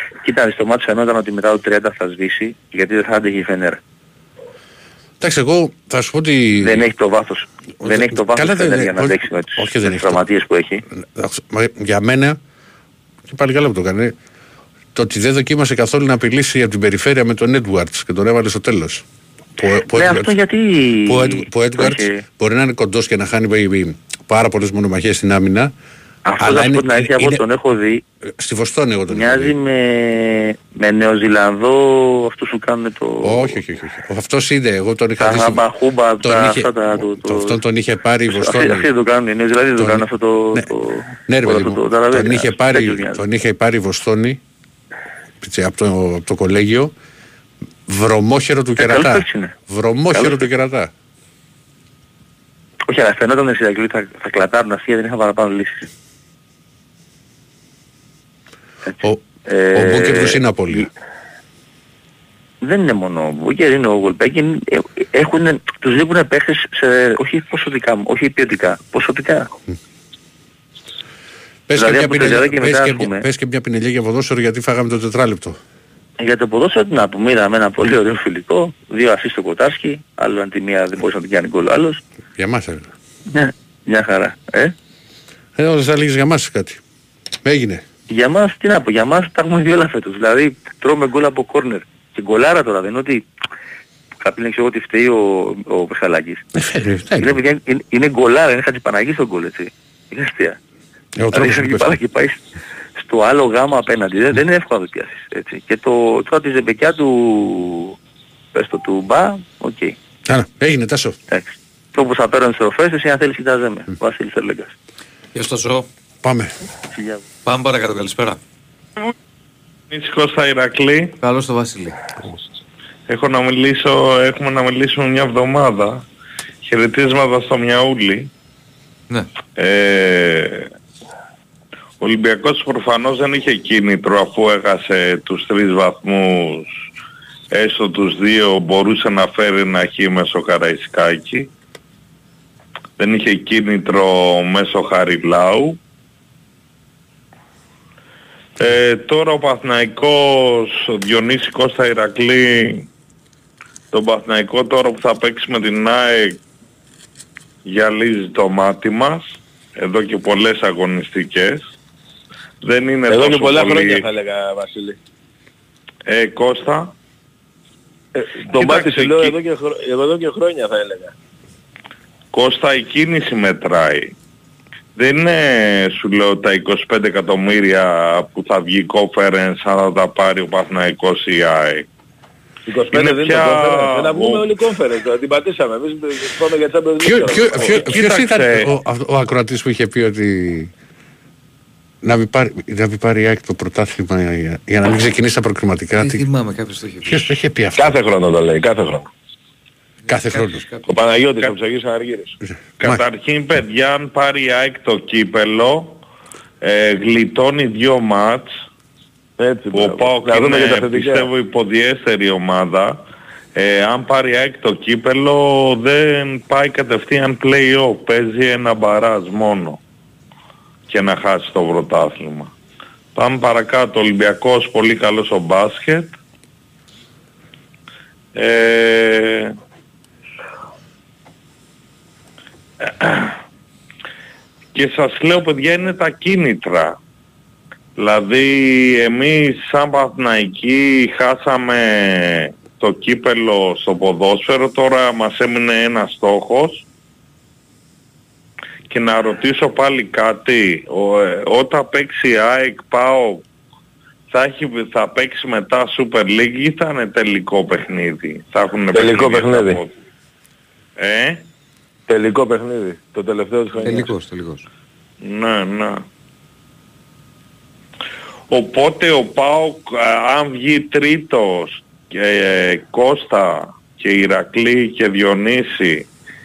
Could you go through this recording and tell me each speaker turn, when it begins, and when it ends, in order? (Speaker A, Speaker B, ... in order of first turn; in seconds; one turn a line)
Speaker A: 0.2-3.8
Speaker B: 5.2-6.8
Speaker A: 6.6-10.8
Speaker B: 7.8-10.2
Speaker B: 10.9-12.4
Speaker B: 13.3-14.1
Speaker B: 14.9-19.0
Speaker B: 19.6-20.3
Speaker A: 19.8-22.2
Speaker B: 21.1-25.7
Speaker A: 26.2-28.0
Speaker B: 26.4-27.4
Speaker B: 28.2-29.5
Speaker A: 29.1-33.6
Speaker B: 33.2-35.6
Speaker A: 35.2-37.6
Speaker B: 36.2-38.9
Speaker A: 38.3-43.2
Speaker B: 39.8-40.0
Speaker B: 41.3-44.4
Speaker B: 45.4-46.9
Speaker B: 47.9-50.9
Speaker A: 48.8-49.5
Speaker A: 50.1-50.5
Speaker A: 52.9-55.9
Speaker B: 59.0-60.9
Speaker A: 59.4-60.9
Speaker A: 62.6-69.5
Speaker B: 71.7-75.6
Speaker A: 71.7-73.2
Speaker A: 76.2-82.0
Speaker B: 82.3-82.9
Speaker A: 83.3-84.7
Speaker B: 85.5-86.8
Speaker B: 87.4-87.8
Speaker A: 88.1-93.2
Speaker A: 94.2-96.4
Speaker B: 96.5-97.4
Speaker A: 97.2-100.6
Speaker B: 101.2-102.0
Speaker A: 101.3-102.4
Speaker A: 103.0-108.0
Speaker A: 108.5-109.9
Speaker B: 110.3-111.2
Speaker A: 111.3-114.7
Speaker C: 115.3-115.9
Speaker B: 116.2-116.5
Speaker A: 116.9-117.2
Speaker C: 117.4-118.4
Speaker D: 119.9-121.2
Speaker C: 121.2-122.0
Speaker D: 123.1-126.0
Speaker D: 126.6-128.3
Speaker D: 129.6-130.7
Speaker D: 132.0-136.7
Speaker D: 137.5-141.5
Speaker D: 143.0-145.8
Speaker D: 148.6-152.9
Speaker D: 153.9-156.4
Speaker D: 157.7-161.7
Speaker D: 162.6-164.0
Speaker E: 163.1-165.0
Speaker D: 166.1-166.9
Speaker E: 168.1-171.1
Speaker D: 168.5-169.3
Speaker D: 172.3-174.1
Speaker D: 174.9-181.9
Speaker E: 182.7-187.8
Speaker D: 182.9-184.5
Speaker B: 187.0-190.7
Speaker D: 187.5-188.7
Speaker B: 192.0-196.2
Speaker C: 195.9-197.3
Speaker B: 197.0-197.9
Speaker E: 197.8-199.1
Speaker C: 200.0-201.0
Speaker B: 200.1-200.6
Speaker E: 200.9-202.4
Speaker D: 202.8-206.0
Speaker D: 206.6-208.5
Speaker E: 209.4-211.3
Speaker D: 209.7-219.8
Speaker D: 220.9-222.5
Speaker D: 223.1-226.2
Speaker D: 228.3-229.5
Speaker D: 232.8-233.4
Speaker D: 234.7-237.0
Speaker D: 238.0-246.8
Speaker D: 248.9-253.4
Speaker D: 254.3-259.9
Speaker E: 258.9-259.8
Speaker D: 261.0-261.4
Speaker E: 262.1-264.1
Speaker C: 263.8-264.6
Speaker D: 265.2-266.0
Speaker D: 268.5-276.1